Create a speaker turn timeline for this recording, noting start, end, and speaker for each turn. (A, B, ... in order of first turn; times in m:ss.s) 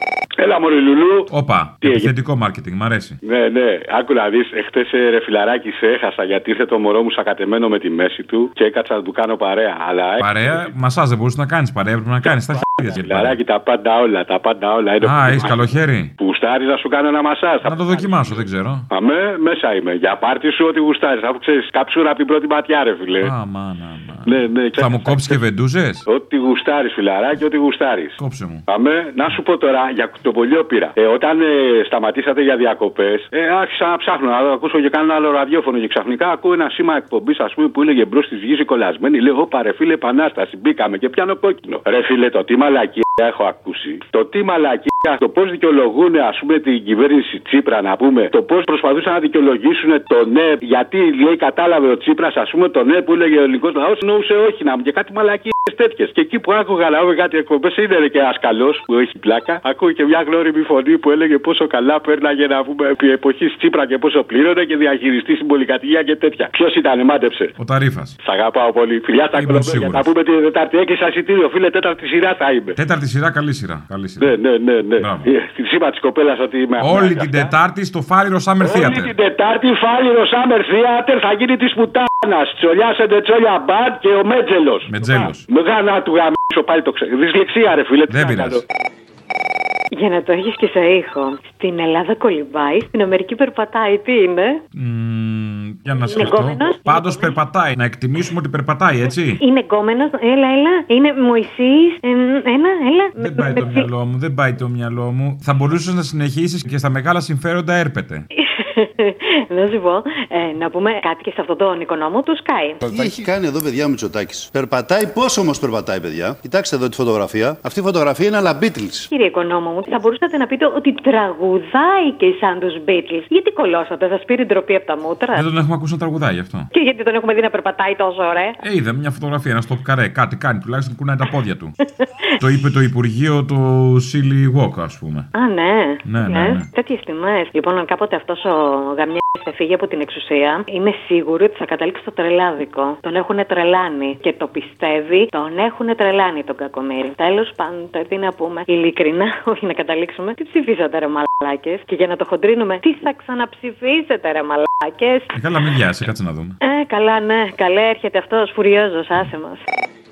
0:00.4-0:01.3 A
0:01.3-0:03.2 B
0:01.8-0:02.1 A
0:03.2-0:10.5 A
0:10.2-0:13.4 B
0:12.8-0:18.4 A
0:15.0-0:16.1 B
0:17.6-0:18.8 B
0:18.9-0:23.3 A
0:23.2-0:26.0 B
0:24.3-0:25.4 A
0:26.1-0:28.1 A
0:28.2-0:28.6 B
0:28.7-1:07.5 A
1:07.6-1:08.1 B
1:08.2-1:12.7 A
1:09.3-1:10.1 B
1:12.8-1:14.3 B
1:14.2-1:17.5 A
1:15.0-1:15.3 B
1:16.8-1:19.1 B
1:18.6-1:28.6 A
1:24.9-1:25.4 B
1:28.1-1:28.6 B
1:29.9-1:34.6 C
1:34.7-1:39.4 B
1:36.1-1:37.3 C
1:39.4-1:43.9 C
1:43.2-1:48.2 B
1:48.3-1:52.9 C
1:52.8-1:59.1 D
1:59.1-2:05.5 C
2:05.3-2:06.7 B
2:06.7-2:08.6 C
2:08.6-2:11.7 B
2:12.0-2:12.5 C
2:12.4-2:15.3 B
2:15.3-2:35.3 C
2:16.0-2:16.7 B
2:35.3-2:36.5 B
2:36.6-2:39.6 C